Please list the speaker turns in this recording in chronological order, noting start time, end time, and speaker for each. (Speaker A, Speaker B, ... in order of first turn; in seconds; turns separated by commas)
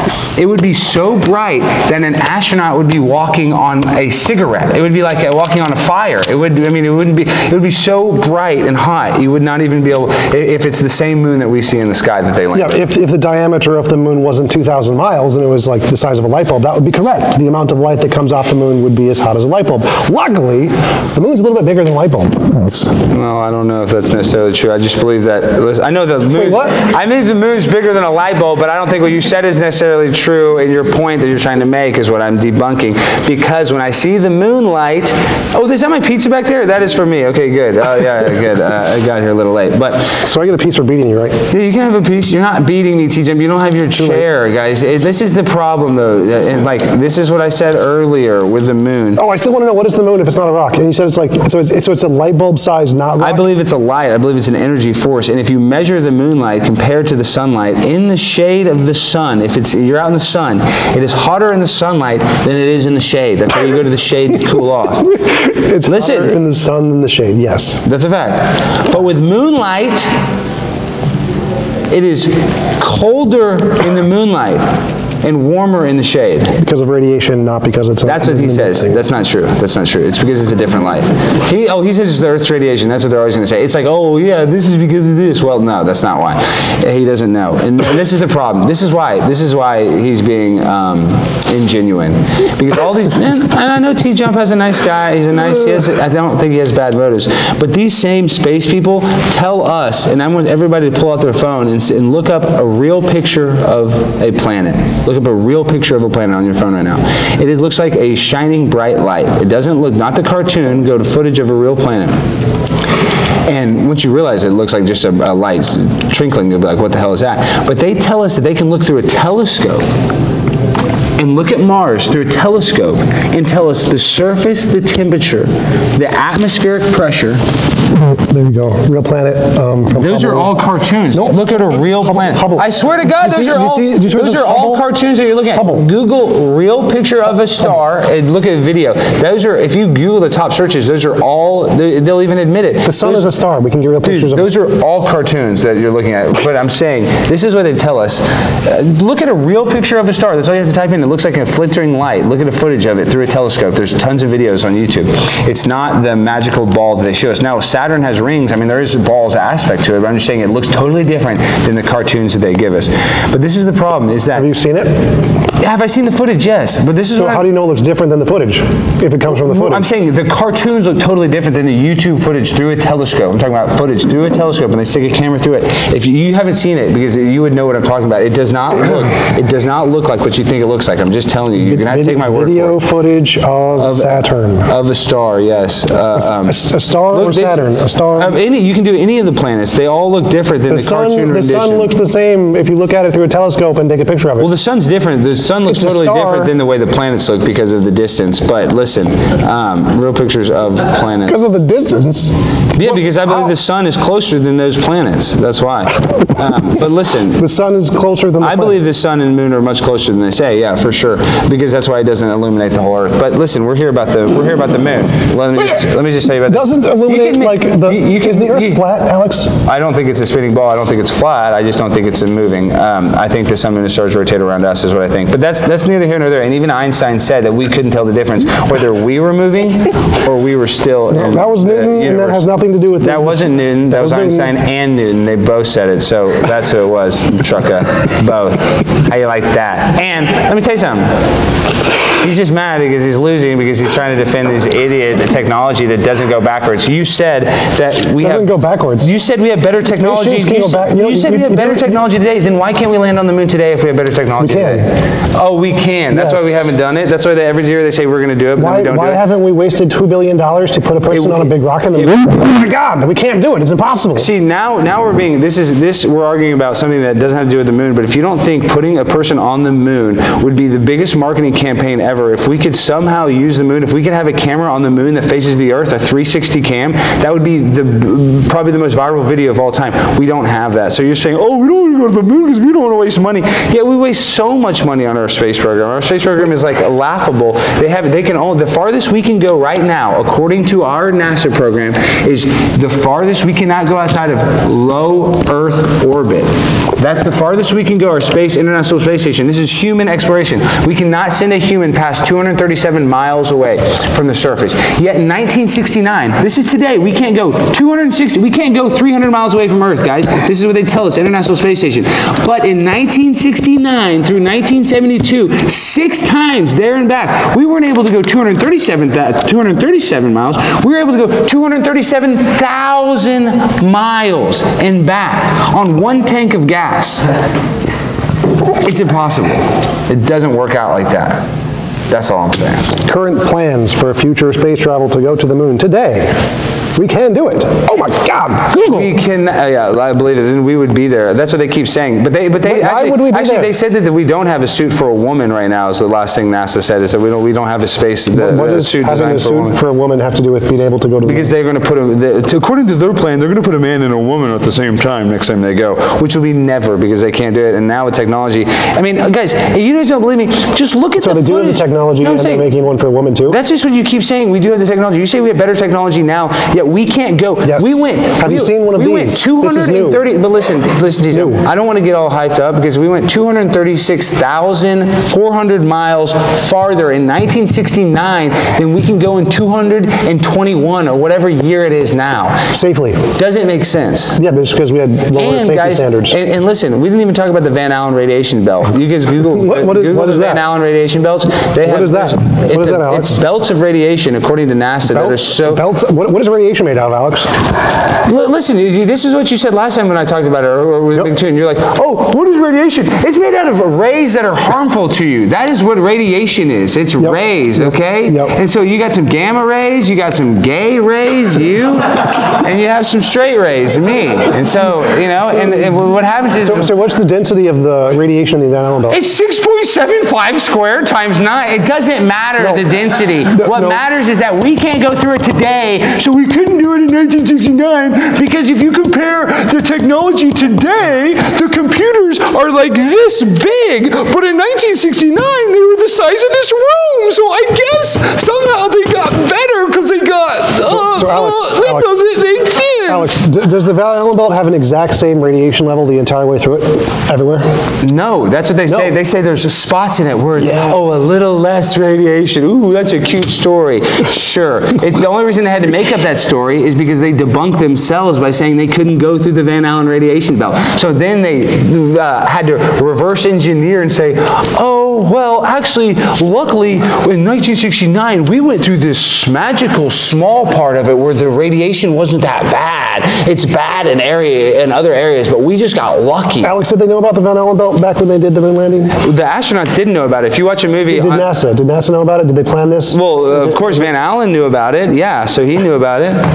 Speaker A: 0.4-12.8, Speaker B: 12.5-22.9, Speaker A: 23.1-40.2, Speaker B: 26.3-26.9, Speaker B: 40.2-41.4, Speaker A: 41.5-49.2, Speaker B: 43.9-44.2, Speaker B: 49.2-53.4, Speaker A: 53.2-65.1, Speaker B: 65.1-67.8, Speaker A: 65.8-66.3, Speaker A: 67.8-70.1, Speaker A: 71.9-74.7, Speaker A: 75.2-76.5, Speaker B: 76.6-79.0, Speaker A: 78.0-112.2, Speaker A: 113.5-119.9, Speaker A: 121.2-127.4, Speaker B: 128.0-130.5, Speaker A: 129.9-143.3, Speaker B: 131.1-134.9, Speaker B: 135.5-135.8, Speaker B: 142.8-144.5, Speaker A: 144.0-164.5, Speaker B: 164.3-165.0, Speaker A: 165.6-167.5, Speaker B: 167.2-169.9, Speaker A: 169.3-182.8, Speaker B: 181.6-184.7, Speaker A: 183.8-191.9, Speaker B: 186.2-188.4, Speaker B: 190.7-194.5, Speaker A: 194.4-201.4, Speaker B: 195.6-196.5, Speaker B: 201.2-203.5, Speaker A: 202.7-207.4, Speaker B: 207.4-208.9, Speaker A: 208.4-218.8, Speaker B: 216.5-219.5, Speaker A: 219.6-232.4, Speaker B: 231.1-234.5, Speaker A: 233.0-241.1, Speaker A: 242.2-259.2, Speaker B: 248.2-249.1, Speaker B: 249.8-252.0, Speaker B: 254.4-254.9, Speaker B: 256.1-256.7, Speaker B: 258.6-264.3, Speaker A: 261.1-262.1, Speaker A: 264.1-327.3, Speaker A: 328.8-331.4, Speaker A: 332.1-332.9, Speaker B: 333.0-336.4, Speaker B: 336.9-339.1, Speaker A: 338.7-349.8, Speaker B: 342.6-343.7, Speaker B: 348.3-351.5, Speaker A: 351.2-362.6, Speaker B: 361.2-363.6, Speaker A: 363.5-382.7, Speaker B: 367.6-370.3, Speaker B: 371.3-371.6, Speaker B: 382.7-383.2, Speaker A: 383.4-384.4, Speaker B: 384.4-386.4, Speaker A: 385.4-395.8, Speaker B: 389.4-390.6, Speaker B: 391.8-393.4, Speaker B: 395.1-397.5, Speaker A: 398.2-416.9, Speaker B: 407.2-408.6, Speaker B: 416.6-419.2, Speaker A: 419.1-443.3, Speaker B: 422.6-422.9, Speaker B: 423.4-424.0, Speaker B: 440.9-442.2, Speaker B: 443.1-447.7, Speaker A: 448.0-476.7, Speaker B: 448.9-449.1, Speaker B: 450.6-451.0, Speaker B: 476.6-479.1, Speaker A: 479.2-481.5, Speaker B: 481.1-484.1, Speaker A: 483.1-486.4